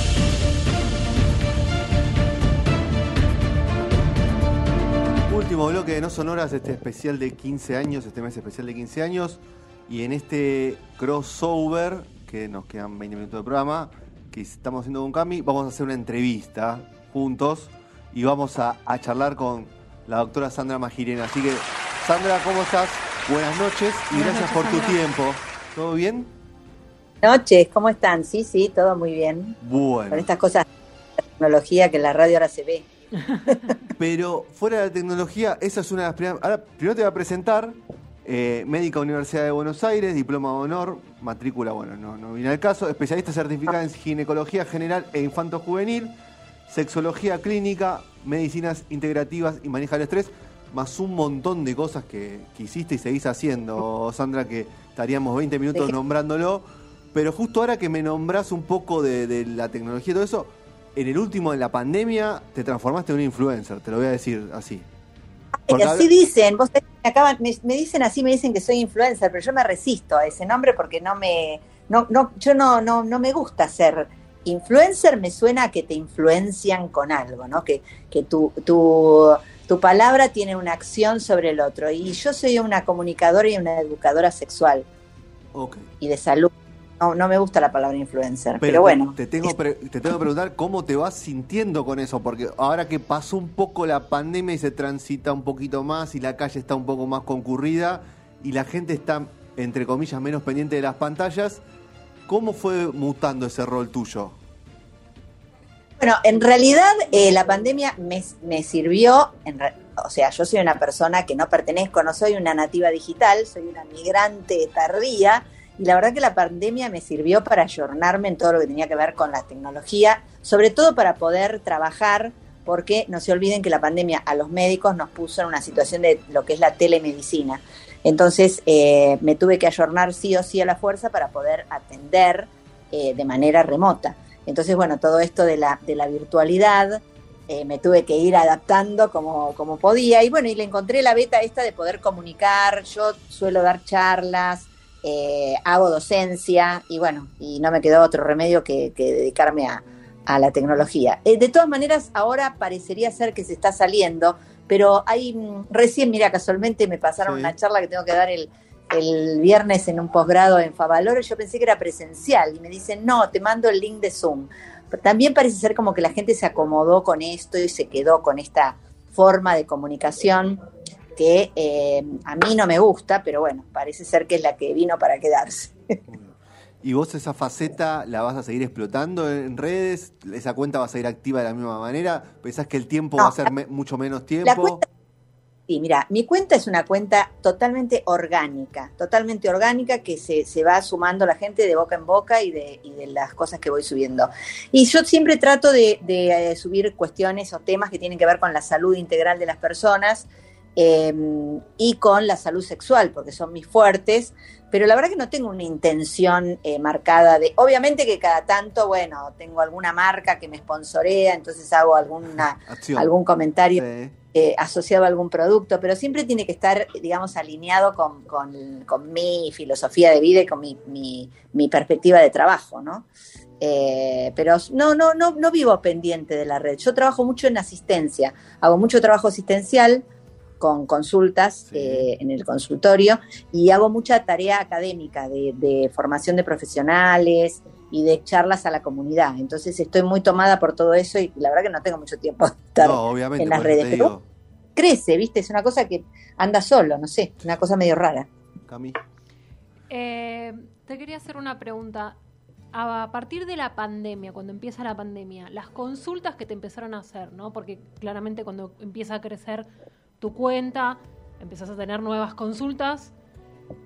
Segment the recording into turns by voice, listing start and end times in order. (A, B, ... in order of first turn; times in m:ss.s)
0:05.3-0:26.3 A
0:24.1-0:25.0 B
0:27.2-0:29.6 C
0:29.6-0:30.3 A
0:30.1-0:30.7 C
0:31.4-0:32.9 C
0:34.0-0:46.1 A
0:46.7-1:04.8 A
1:05.7-1:24.9 C
1:05.7-1:06.1 A
1:25.5-1:25.8 A
1:26.0-1:29.5 C
1:28.6-1:41.6 A
1:42.3-1:44.4 A
1:46.0-2:50.6 C
2:37.2-2:37.6 A
2:51.1-2:55.7 C
2:56.1-3:04.8 A
3:04.4-3:04.8 C
3:05.7-3:43.1 C
3:32.7-3:33.1 A
3:33.8-3:34.1 A
3:43.6-3:50.0 C
3:50.6-4:04.1 C
3:51.7-3:52.1 A
4:02.8-4:04.2 A
4:04.8-4:08.3 C
4:08.7-4:09.0 A
4:09.9-4:12.2 B
4:12.7-4:19.7 B
4:20.2-4:23.1 B